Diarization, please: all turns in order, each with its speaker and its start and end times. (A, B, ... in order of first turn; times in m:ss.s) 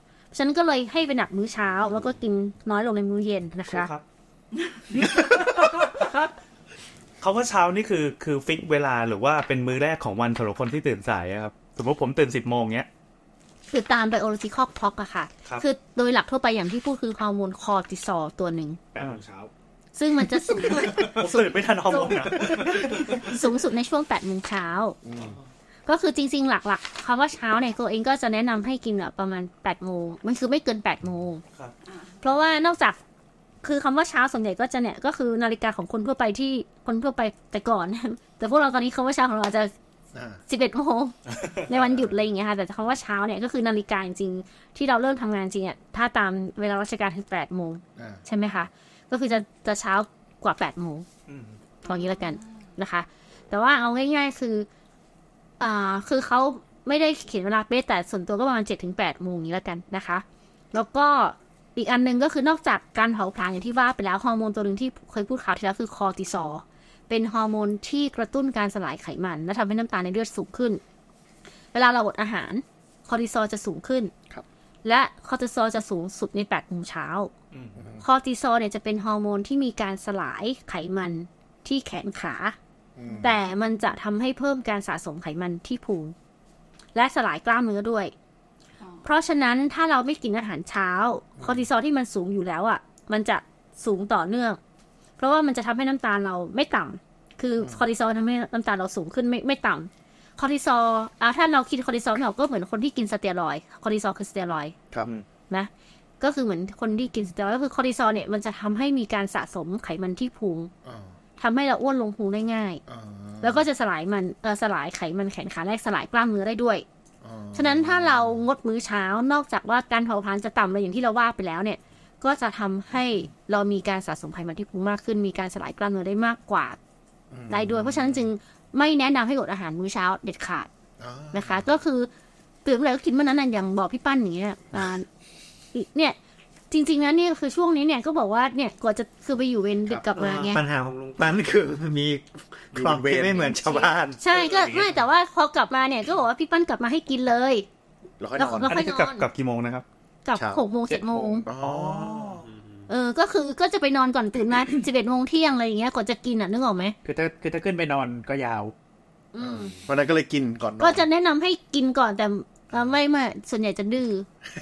0:00.3-0:03.9 A
0:03.7-0:04.0 B
0:05.0-0:06.2 B
0:07.2-0:12.9 B
0:13.7-0:18.8 A
0:18.9-0:19.5 C
0:19.0-0:19.2 B
0:20.0-0:25.0 A
0:20.8-0:23.2 B
0:25.0-0:25.4 D
0:25.9-0:31.4 A
0:32.2-0:33.0 A
0:33.6-0:39.7 A
0:40.1-0:40.4 D
0:40.5-0:41.1 A
0:41.7-0:51.0 A
0:51.3-0:51.6 B
0:51.8-0:54.7 A
0:55.6-1:10.8 A
1:11.7-1:14.1 A
1:14.8-1:17.3 A
1:17.8-1:18.0 D
1:18.0-1:22.6 A
1:23.0-1:23.4 D
1:23.2-1:26.1 A
1:26.9-1:28.1 A
1:29.0-1:34.6 A
1:35.2-1:44.7 A
1:45.5-1:50.7 A
1:50.8-1:51.1 D
1:51.4-1:52.8 A
1:52.9-1:53.6 D
1:53.4-1:56.8 A
1:57.2-1:58.4 D
1:57.5-2:06.8 A
2:07.3-2:08.2 D
2:07.5-2:10.7 A
2:11.0-2:11.6 D
2:11.3-2:12.1 A
2:12.6-2:15.0 A
2:15.7-2:16.2 A
2:16.7-2:20.6 A
2:20.2-2:24.2 E
2:22.8-2:23.8 D
2:24.2-2:27.7 A
2:24.3-2:25.0 B
2:28.2-2:28.7 D
2:28.4-2:29.3 A
2:28.6-2:29.8 B
2:30.2-2:31.5 A
2:30.3-2:30.6 D
2:30.9-2:31.5 C
2:31.5-2:32.4 D
2:31.6-2:32.4 B
2:32.9-2:37.0 A
2:37.0-2:38.7 C
2:39.3-2:39.7 A
2:39.4-2:41.0 D
2:40.8-2:44.2 A